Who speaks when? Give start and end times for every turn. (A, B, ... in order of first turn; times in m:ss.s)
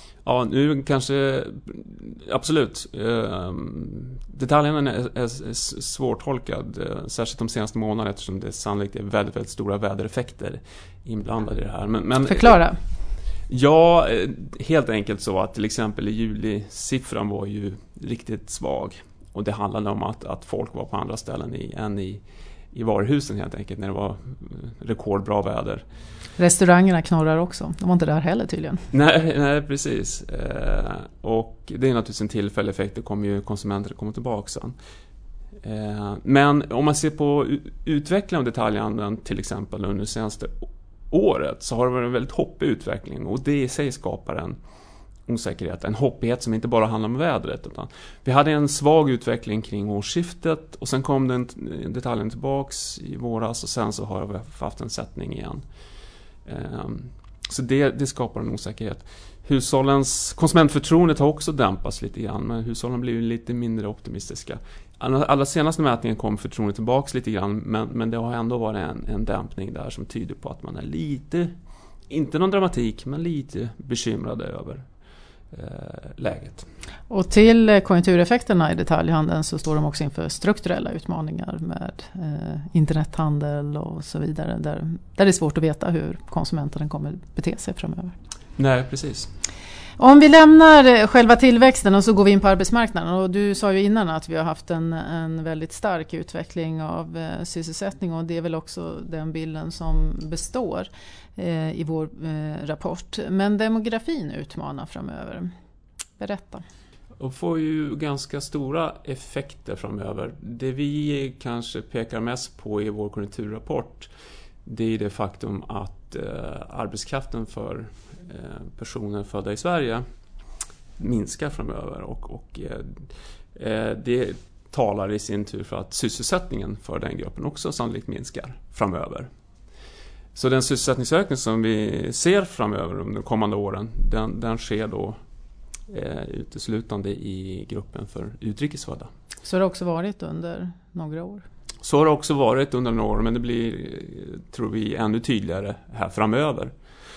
0:00.2-0:12.6 A
0:12.2-0:12.8 B
0:13.5-0:25.8 A
0:26.4-0:28.8 B
0:28.9-0:34.8 A
0:35.6-0:44.6 A
0:45.2-0:55.6 A
0:56.5-1:11.5 A
1:12.1-1:14.8 A
1:15.5-1:16.7 A
1:17.1-1:28.2 B
1:28.6-1:29.3 A
1:30.0-1:45.5 B
1:46.2-1:46.6 B
1:47.2-1:54.1 A
1:54.6-2:00.0 A
2:01.0-2:09.3 A
2:10.4-2:15.2 A
2:15.9-2:19.1 A
2:19.4-2:21.4 B
2:21.8-2:26.7 A